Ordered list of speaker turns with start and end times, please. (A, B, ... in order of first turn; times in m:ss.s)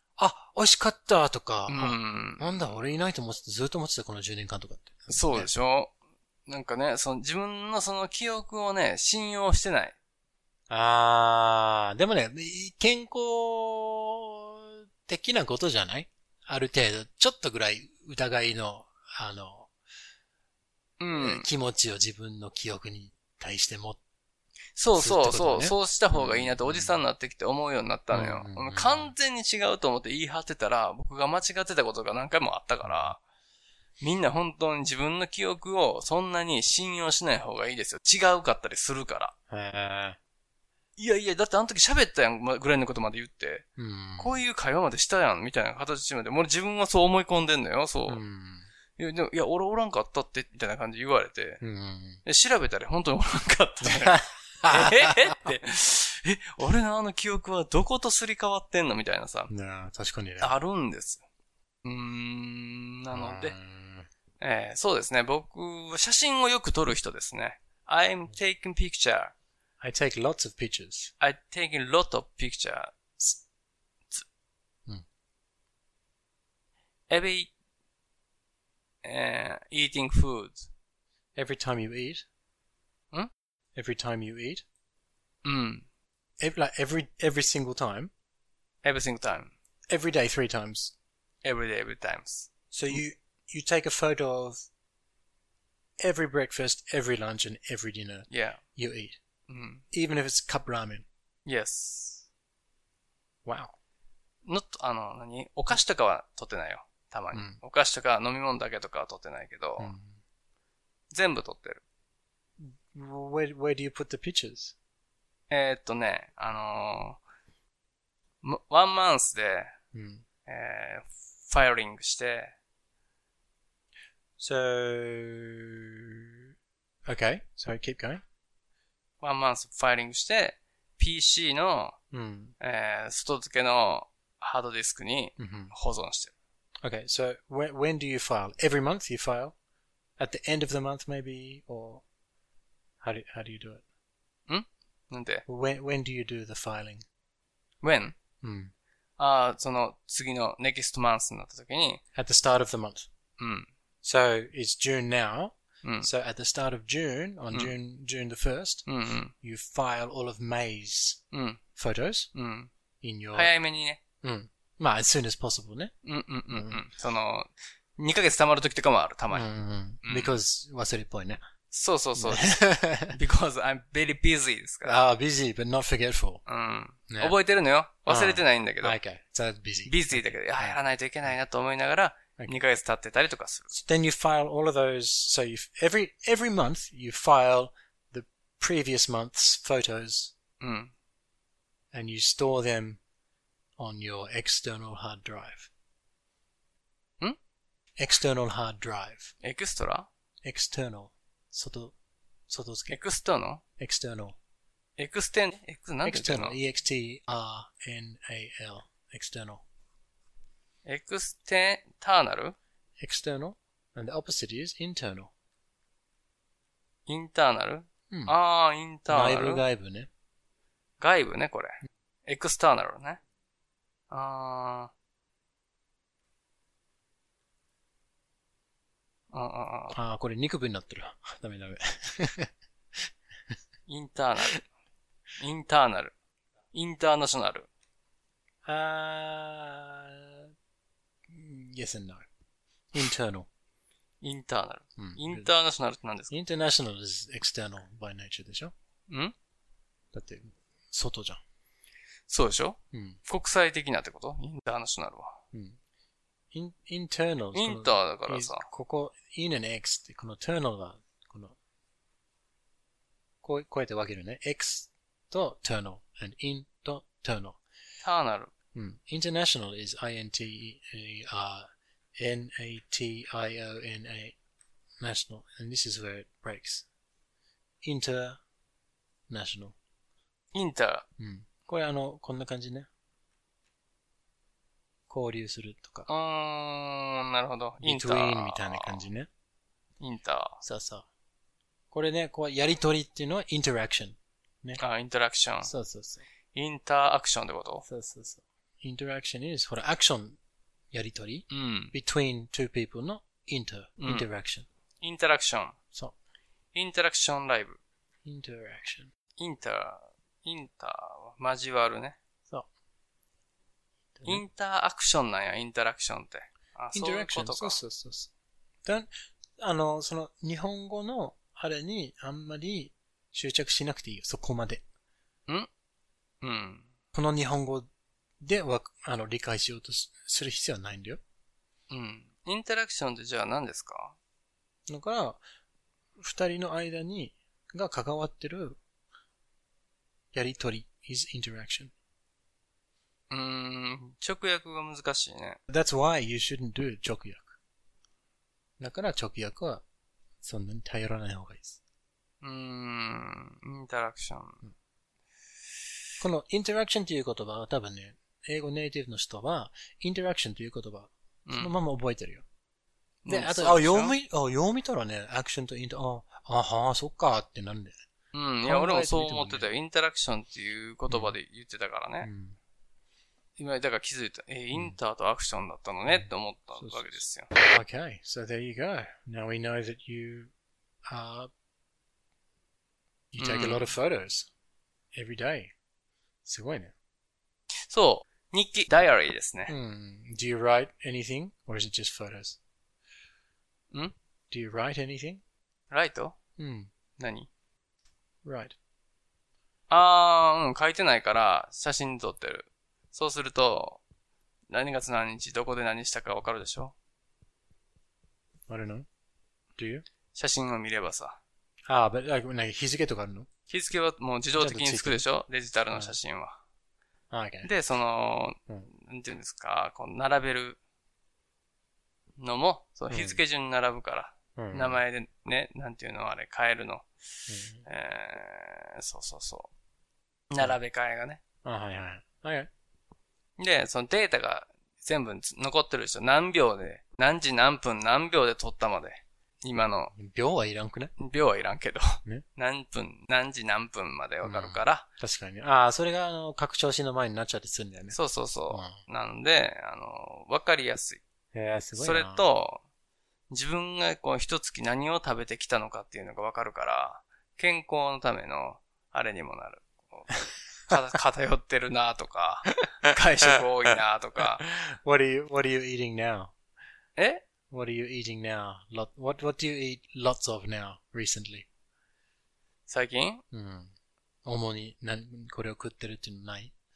0:00.2-0:05.5 A
0:01.7-0:02.7 B
0:05.1-0:05.9 B
0:06.5-0:09.9 B
0:10.7-0:19.7 A
0:21.0-0:21.4 B
0:21.2-0:24.0 A
0:24.8-0:33.2 B
0:25.0-0:27.0 A
0:28.1-0:29.1 A
0:32.8-0:33.1 A
0:34.0-0:39.3 B
0:39.5-0:40.2 A
0:41.0-0:43.6 B
0:43.8-0:44.4 A
0:44.2-0:48.2 B
0:48.1-0:48.7 A
0:49.0-0:51.6 B
0:51.6-0:52.2 A
0:52.2-0:59.5 B
0:53.8-0:55.4 A
0:59.5-1:00.5 A
1:00.4-1:01.2 B
1:01.8-1:03.6 B
1:03.1-1:04.1 A
1:04.4-1:09.3 B
1:09.8-1:11.1 A
1:11.2-1:13.3 B
1:17.1-1:17.5 B
1:19.0-1:20.7 B
1:21.3-1:22.2 A
1:23.7-1:24.6 A
1:25.4-1:25.8 B
1:26.4-1:28.1 A
1:28.8-1:29.5 B
1:29.9-1:30.9 A
1:31.4-1:33.0 B
1:32.7-1:34.7 A
1:36.0-1:39.2 A
1:38.3-1:38.6 B
1:39.5-1:39.8 B
1:39.9-1:41.0 A
1:41.5-1:42.2 B
1:43.4-1:43.7 A
1:44.4-1:49.9 B
1:47.3-1:47.6 A
1:49.8-1:50.2 A
1:51.1-1:51.8 B
1:52.6-1:54.7 A
1:55.5-1:57.2 B
1:58.4-1:59.7 B
1:59.9-2:00.2 A
2:00.4-2:02.5 B
2:04.4-2:06.3 A
2:07.0-2:08.2 A
2:09.2-2:12.0 B
2:12.1-2:12.5 A
2:12.6-2:16.3 B
2:15.4-2:15.7 A
2:16.8-2:19.5 A
2:20.2-2:22.0 A
2:23.0-2:23.8 A
2:24.5-2:25.4 B
2:25.5-2:27.0 A
2:27.8-2:28.1 B
2:28.4-2:28.7 A
2:29.2-2:32.0 B
2:32.1-2:33.1 A
2:33.4-2:33.7 B
2:34.0-2:41.2 A
2:35.8-2:36.1 B
2:38.8-2:39.3 B
2:41.3-2:41.6 B
2:41.8-2:42.3 A
2:42.3-2:42.7 B
2:43.0-2:43.5 A
2:43.3-2:44.0 B
2:44.2-2:45.9 A
2:46.0-2:49.5 B
2:46.5-2:46.8 A
2:49.3-2:51.4 A
2:50.0-2:50.4 B
2:51.7-2:55.0 B
2:52.2-2:53.2 A
2:54.8-2:56.4 A
2:56.5-2:59.0 B
2:57.1-2:57.3 A
2:58.1-3:00.8 A
2:59.8-3:03.7 B
3:03.7-3:10.3 A
3:10.6-3:10.9 B
3:11.9-3:13.0 A
3:13.8-3:15.7 A
3:18.0-3:19.3 A
3:19.4-3:20.1 B
3:20.4-3:21.9 A
3:22.5-3:23.0 A
3:22.9-3:23.6 B
3:23.8-3:24.4 A
3:25.0-3:26.6 B
3:26.0-3:29.6 A
3:30.8-3:32.6 B
3:33.0-3:35.3 A
3:37.1-3:39.6 B
3:38.1-3:38.3 A
3:39.1-3:40.1 A
3:41.0-3:43.2 B
3:44.1-3:44.9 B
3:49.3-3:50.0 B
3:49.9-3:52.5 A
3:53.9-3:54.6 B
3:55.4-3:56.1 B
3:56.7-3:57.7 B
3:58.6-4:00.5 A
4:01.3-4:02.2 A
4:02.9-4:03.5 A
4:04.2-4:06.3 B
4:05.0-4:05.5 A
4:06.3-4:08.7 A
4:09.1-4:09.3 B
4:10.1-4:11.4 A
4:12.3-4:15.4 B
4:12.9-4:13.2 A
4:15.5-4:15.8 A
4:16.5-4:21.5 A
4:17.5-4:18.7 B
4:23.4-4:27.6 A
4:28.0-4:28.5 B
4:28.7-4:34.4 A
4:35.0-4:36.8 A
4:37.8-4:38.4 A
4:39.3-4:39.7 A
4:40.5-4:41.0 B
4:41.2-4:42.9 A
4:45.1-4:46.1 A
4:46.1-4:49.0 B
4:47.8-4:49.3 A
4:50.0-4:50.6 B
4:50.6-4:51.0 A
4:51.9-4:54.8 A
4:54.8-4:55.7 B
4:55.6-4:56.2 A
4:56.5-4:57.8 B
4:57.9-5:00.4 A
5:00.9-5:04.6 A
5:01.5-5:01.9 B
5:04.0-5:04.3 B
5:05.0-5:05.8 B
5:06.7-5:07.8 B
5:08.2-5:09.1 A
5:09.4-5:12.2 B
5:14.2-5:14.4 A
5:14.2-5:17.8 B
5:16.9-5:18.3 A
5:18.8-5:24.8 A
5:26.4-5:26.9 B
5:27.1-5:27.9 A
5:28.4-5:31.2 A
5:31.9-5:34.2 B
5:34.9-5:35.4 A
5:36.2-5:38.8 A
5:40.3-5:41.9 A
5:43.3-5:45.6 B
5:45.7-5:47.5 A
5:48.8-5:49.8 A
5:50.4-5:51.8 A
5:52.4-5:54.6 B
5:56.2-6:02.4 A
6:01.4-6:01.7 B
6:03.2-6:04.2 B
6:03.3-6:08.0 A
6:08.3-6:12.3 B
6:08.6-6:09.7 A
6:11.1-6:11.3 A
6:12.2-6:12.6 A
6:13.6-6:17.5 B
6:16.1-6:20.5 A
6:21.1-6:21.5 A
6:23.3-6:24.5 A
6:23.4-6:23.9 B
6:25.1-6:25.7 A
6:26.4-6:26.9 A
6:27.8-6:29.7 B
6:29.7-6:32.6 A
6:34.5-6:35.4 A
6:35.9-6:36.4 B
6:36.6-6:36.9 A
6:37.2-6:37.5 B
6:38.4-6:38.7 A
6:39.9-6:44.0 B
6:44.7-6:46.9 B
6:48.7-6:49.1 A
6:49.8-6:50.0 A
6:50.3-6:51.4 B
6:51.9-6:53.5 A
6:53.7-6:56.6 B
6:54.6-6:55.2 A
6:57.3-6:57.7 A
6:57.6-7:00.8 B
7:02.4-7:07.0 B
7:03.1-7:03.4 A
7:04.6-7:05.0 A
7:07.5-7:07.8 A
7:07.8-7:09.7 B
7:10.5-7:11.4 B
7:11.6-7:12.7 A
7:13.6-7:20.1 B
7:20.1-7:21.1 A
7:21.2-7:25.1 B
7:24.4-7:28.2 A
7:28.1-7:31.2 B
7:28.7-7:29.0 A
7:31.5-7:32.4 A
7:32.0-7:32.8 B
7:33.5-7:40.3 B
7:40.8-7:44.6 B
7:44.6-7:46.5 A
7:47.2-7:47.4 B
7:47.7-7:51.7 A
7:52.9-7:53.4 B
7:53.5-7:53.9 A
7:54.4-7:56.7 A